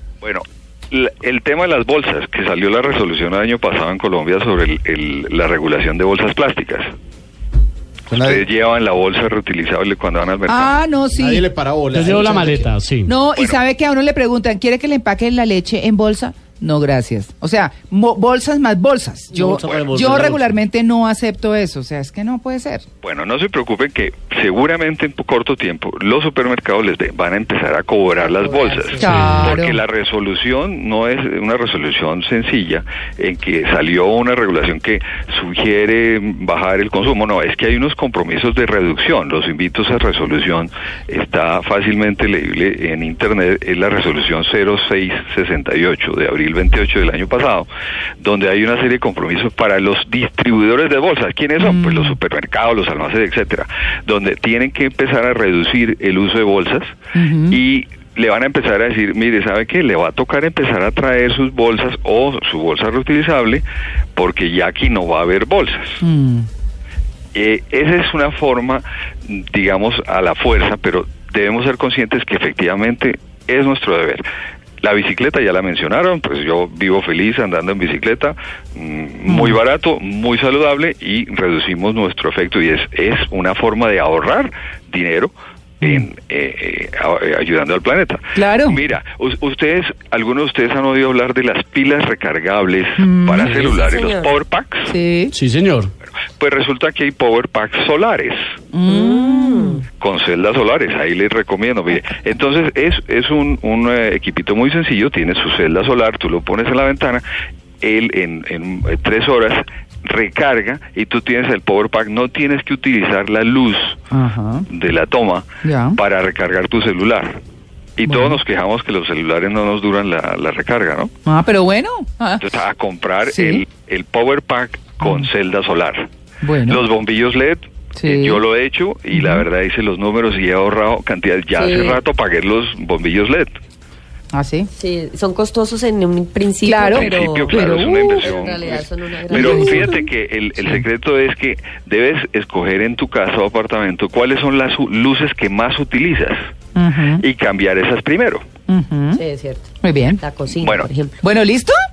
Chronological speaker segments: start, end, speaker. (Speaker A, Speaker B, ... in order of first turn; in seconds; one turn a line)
Speaker A: 0.2-6.9
Speaker B: 8.1-8.4
Speaker A: 8.2-10.8
Speaker C: 10.5-11.5
Speaker B: 11.2-12.7
Speaker D: 11.9-13.2
Speaker C: 13.1-22.8
Speaker A: 13.3-13.6
Speaker B: 19.3-20.2
Speaker A: 19.4-20.4
Speaker A: 23.0-47.7
Speaker E: 28.1-29.3
Speaker C: 29.0-29.8
Speaker D: 29.1-29.5
Speaker A: 48.2-57.0
Speaker C: 51.6-52.2
Speaker C: 57.1-57.6
Speaker A: 57.5-63.6
Speaker A: 64.2-66.0
Speaker C: 66.0-66.5
Speaker A: 67.3-74.2
Speaker A: 74.8-94.9
Speaker C: 79.3-79.6
Speaker C: 88.3-88.8
Speaker C: 93.0-93.5
Speaker E: 93.4-94.4
Speaker C: 94.9-95.3
Speaker D: 95.3-95.9
Speaker A: 96.4-98.4
Speaker C: 98.7-99.8
Speaker E: 98.9-99.8
Speaker A: 100.0-107.2
Speaker A: 107.8-114.1
Speaker C: 114.1-114.7
Speaker A: 114.7-117.4
Speaker C: 115.6-116.0
Speaker A: 118.0-121.1
Speaker C: 118.1-118.4
Speaker C: 121.3-122.4
Speaker A: 122.4-126.1
Speaker C: 123.2-123.7
Speaker C: 125.0-125.3
Speaker C: 126.4-126.9
Speaker A: 126.6-133.6
Speaker C: 128.0-128.4
Speaker C: 129.1-129.5
Speaker E: 131.6-132.0
Speaker C: 134.3-134.7
Speaker E: 134.7-140.0
Speaker C: 136.6-138.3
Speaker A: 136.9-146.4
Speaker C: 139.3-140.1
Speaker C: 140.6-140.9
Speaker C: 146.8-147.2
Speaker A: 147.2-148.5
Speaker C: 148.7-149.2
Speaker E: 149.1-151.2
Speaker C: 149.8-150.2
Speaker A: 150.5-150.9
Speaker C: 151.2-151.7